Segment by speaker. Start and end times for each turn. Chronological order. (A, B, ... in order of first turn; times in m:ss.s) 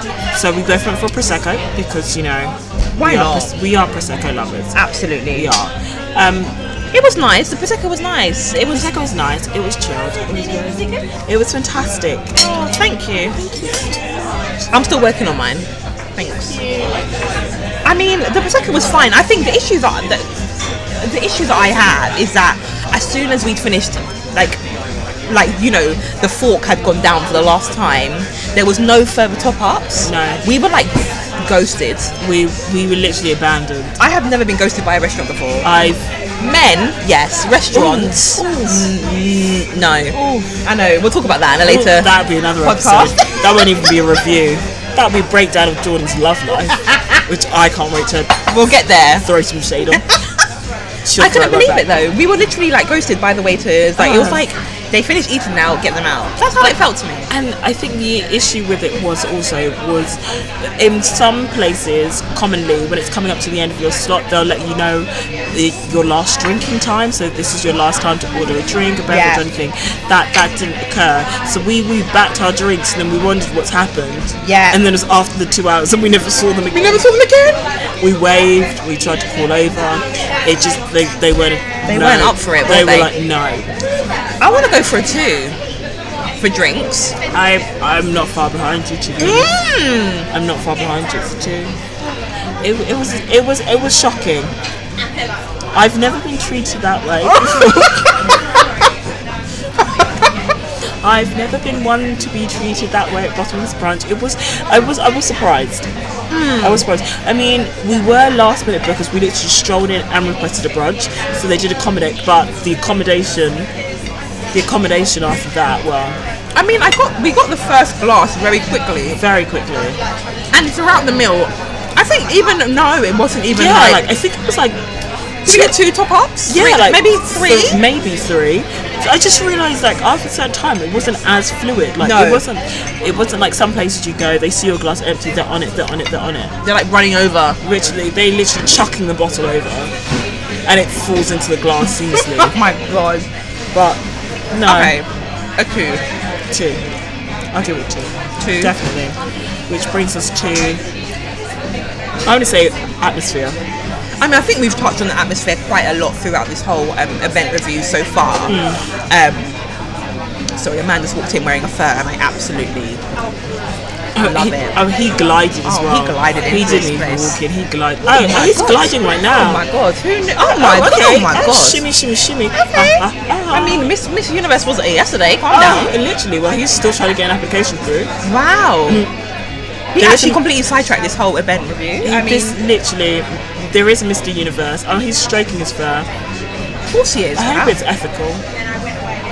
0:00.3-0:04.8 A
0:03.0-0:03.5 B
0:04.7-0:05.5 B
0:05.3-0:06.5 A
0:06.9-0:08.9 B
0:08.6-0:12.3 A
0:12.4-0:13.4 B
0:13.4-0:14.7 A
0:14.7-0:16.6 B
0:16.5-0:17.0 A
0:17.8-0:20.4 B
0:20.9-0:24.6 B
0:25.3-0:32.1 B
0:30.0-0:30.4 A
0:32.2-0:34.0 A
0:34.0-0:35.7 B
0:35.6-0:36.0 A
0:36.4-0:42.1 B
0:37.7-0:38.9 A
0:40.1-0:40.5 A
0:41.6-0:48.4 A
0:42.6-0:43.4 B
0:46.8-0:47.2 B
0:48.5-0:49.2 B
0:49.2-0:50.2 A
0:49.9-0:50.2 B
0:51.0-0:51.9 A
0:51.2-0:57.3 B
0:54.0-0:54.4 A
0:56.6-1:17.0 A
1:09.1-1:09.4 B
1:14.4-1:14.8 B
1:16.7-1:17.6 B
1:18.0-1:23.7 A
1:21.9-1:23.1 B
1:24.4-1:25.6 B
1:26.4-1:27.1 B
1:27.3-1:29.6 A
1:29.2-1:30.3 B
1:30.3-1:31.7 A
1:32.6-1:34.5 A
1:35.7-1:38.2 A
1:41.0-1:45.8 A
1:46.3-1:46.8 B
1:46.6-1:53.7 A
1:54.5-1:56.2 A
1:56.6-1:59.2 B
1:59.2-2:00.0 A
2:00.5-2:04.0 B
2:03.5-2:04.8 A
2:05.4-2:05.7 A
2:05.4-2:07.8 B
2:06.5-2:16.6 A
2:12.0-2:12.4 B
2:16.6-2:17.6 B
2:17.6-2:19.9 A
2:20.7-2:22.5 A
2:22.1-2:23.3 B
2:23.7-2:24.0 A
2:24.5-2:25.0 A
2:24.6-2:25.0 B
2:25.6-2:26.0 B
2:26.5-2:26.8 A
2:27.5-2:29.2 A
2:28.4-2:28.7 B
2:29.7-2:30.8 A
2:32.2-2:33.6 A
2:34.2-2:39.5 B
2:38.5-2:38.8 A
2:40.6-2:43.0 B
2:44.1-2:49.6 A
2:44.2-2:44.8 B
2:45.6-2:47.4 B
2:48.1-2:51.8 B
2:50.4-2:53.9 A
2:52.5-2:55.9 B
2:55.5-2:58.1 A
2:58.2-2:59.0 B
2:59.9-3:02.6 B
3:00.0-3:00.4 A
3:02.0-3:06.1 A
3:06.9-3:07.8 B
3:07.4-3:08.4 A